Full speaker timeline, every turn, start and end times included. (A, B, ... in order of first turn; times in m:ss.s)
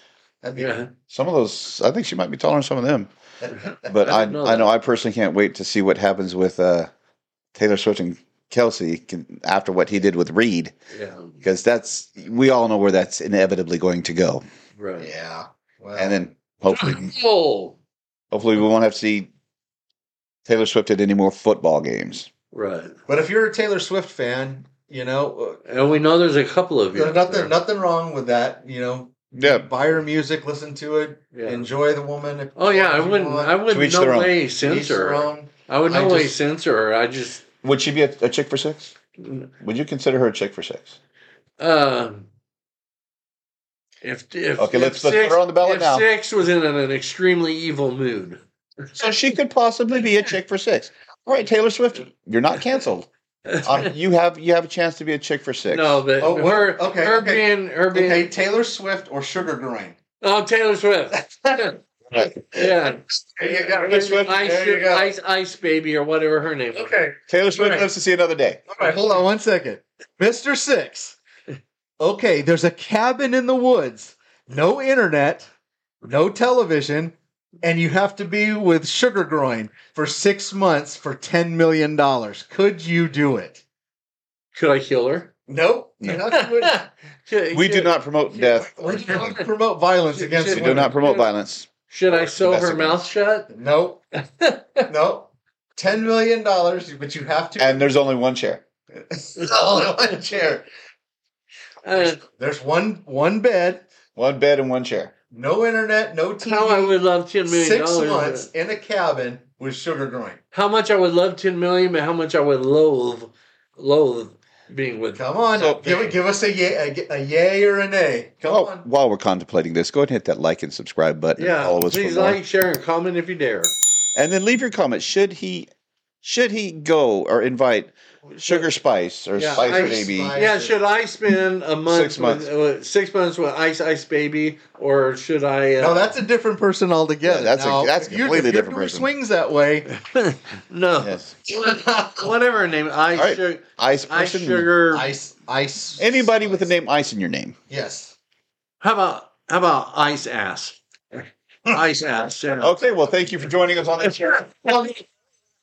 0:00.4-0:00.7 A
0:00.6-0:00.9 B
0:01.1-0:03.1 C
0:03.4-0:03.9 A
0:03.8-0:06.9 C
0:04.0-0:04.7 B
0:07.5-0:10.7 C
0:10.9-0:11.3 B
0:11.4-0:14.4 C
0:14.8-0:15.1 B
0:15.0-0:16.2 A
0:16.0-0:17.1 C
0:16.7-0:17.8 B
0:18.3-0:19.3 C
0:20.4-0:22.3 C
0:22.5-0:22.9 B
0:23.1-0:25.6 A
0:25.7-0:27.5 B
0:26.9-0:33.6 A
0:29.3-0:29.7 C
0:31.3-0:31.7 B
0:32.6-0:37.4 B
0:33.7-0:34.4 C
0:34.6-0:36.3 A
0:37.6-0:38.9 C
0:39.6-0:40.9 C
0:41.6-0:42.3 B
0:44.0-0:48.4 B
0:44.6-0:46.1 C
0:49.0-0:53.1 C
0:53.5-0:53.9 B
0:53.6-0:56.0 C
0:55.7-0:58.3 B
0:56.2-1:00.0 A
1:00.2-1:07.8 B
1:03.4-1:05.1 A
1:03.7-1:04.3 C
1:06.8-1:07.7 A
1:07.3-1:08.6 C
1:08.7-1:11.2 A
1:12.0-1:15.5 A
1:16.0-1:23.6 A
1:24.5-1:25.3 B
1:25.5-1:26.8 A
1:26.1-1:29.5 B
1:27.5-1:28.7 C
1:28.5-1:30.9 A
1:30.1-1:31.3 B
1:30.5-1:33.0 C
1:31.9-1:33.5 B
1:33.5-1:34.0 A
1:34.4-1:34.8 B
1:34.9-1:37.9 A
1:37.6-1:38.6 C
1:39.0-1:40.6 A
1:41.8-1:42.2 B
1:42.2-1:43.8 A
1:44.2-1:45.1 C
1:45.3-1:50.4 A
1:46.4-1:48.5 B
1:50.5-1:55.2 B
1:55.1-1:58.8 A
1:55.5-1:56.1 C
1:58.4-2:02.4 C
2:01.4-2:03.8 B
2:04.1-2:05.7 C
2:06.2-2:10.4 C
2:09.3-2:16.2 B
2:09.5-2:10.8 A
2:11.8-2:12.5 C
2:15.8-2:19.9 A
2:17.2-2:19.1 C
2:19.9-2:25.1 B
2:21.0-2:21.3 C
2:21.6-2:22.1 A
2:23.1-2:24.7 C
2:24.9-2:26.7 A
2:26.0-2:27.6 C
2:27.7-2:28.2 A
2:28.8-2:32.7 B
2:32.6-2:34.5 C
2:34.0-2:35.0 B